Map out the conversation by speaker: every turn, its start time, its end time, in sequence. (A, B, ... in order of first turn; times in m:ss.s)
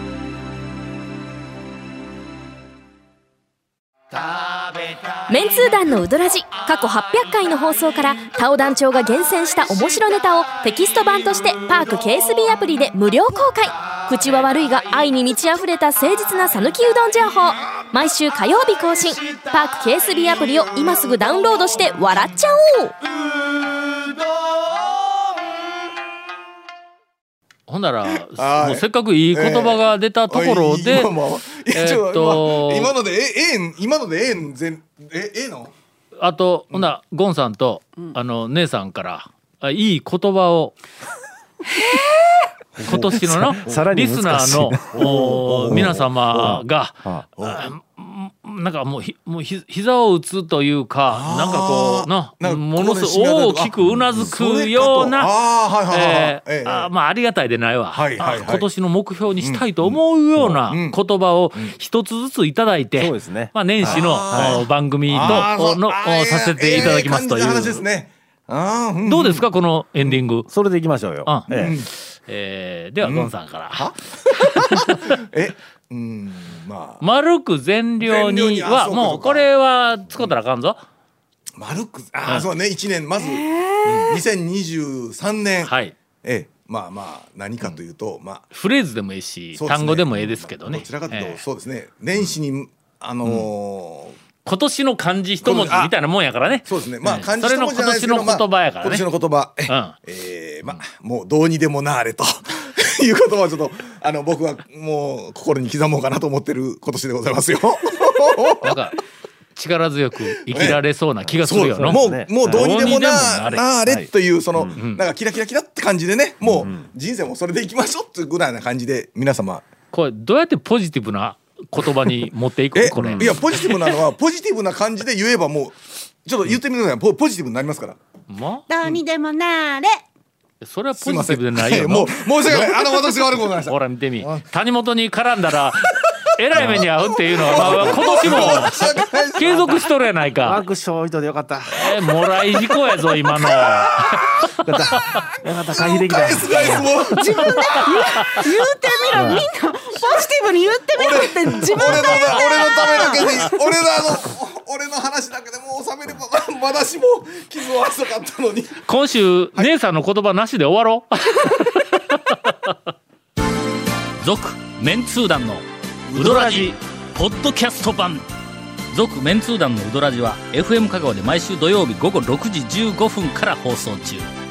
0:05.3-0:22.9 A
0:27.7-0:31.2 B
0:28.3-0:35.7 C
0:31.7-0:33.0 B
0:36.2-0:40.8 B
0:42.8-0:43.8 C
0:42.8-0:55.3 B
0:43.2-0:47.2 D
0:45.0-0:46.6 C
0:47.4-0:47.7 C
0:51.1-0:56.9 C
0:55.9-1:07.8 B
0:57.9-0:58.7 C
0:59.4-1:01.0 C
1:02.9-1:04.7 D
1:03.8-1:09.5 C
1:05.2-1:05.5 D
1:09.0-1:10.5 B
1:10.5-1:11.8 D
1:11.2-1:15.1 B
1:11.5-1:11.9 C
1:13.0-1:17.0 C
1:17.0-1:20.8 B
1:18.0-1:19.5 C
1:21.6-1:28.5 C
1:23.4-1:23.7 E
1:25.6-1:26.0 B
1:28.5-1:31.4 B
1:29.6-1:34.2 C
1:33.2-1:33.5 B
1:34.4-1:39.1 B
1:35.4-1:36.0 C
1:36.6-1:48.8 C
1:39.7-1:40.0 B
1:48.6-1:49.0 B
1:49.6-1:53.7 B
1:50.5-1:50.8 C
1:51.3-1:52.8 D
1:51.4-1:59.6 C
1:53.8-1:54.8 D
1:54.7-1:55.0 B
1:56.5-1:56.9 D
1:59.9-2:03.7 B
2:02.7-2:08.0 C
2:03.0-2:03.3 D
2:08.3-2:08.7 B
2:08.7-2:10.0 E
2:08.8-2:09.1 C
2:10.6-2:13.0 B
2:11.0-2:14.4 C
2:13.6-2:20.6 B
2:16.6-2:16.9 D
2:17.4-2:19.8 C
2:17.5-2:18.8 D
2:19.3-2:19.8 D
2:20.4-2:22.0 D
2:21.7-2:25.1 B
2:23.6-2:24.2 C
2:24.6-2:27.7 D
2:25.7-2:28.0 C
2:26.5-2:33.6 E
2:29.1-2:29.5 D
2:30.9-2:38.8 C
2:31.6-2:32.0 D
2:38.8-2:42.8 B
2:44.2-2:45.6 B
2:46.1-2:46.7 C
2:46.2-2:48.2 B
2:48.9-2:54.2 B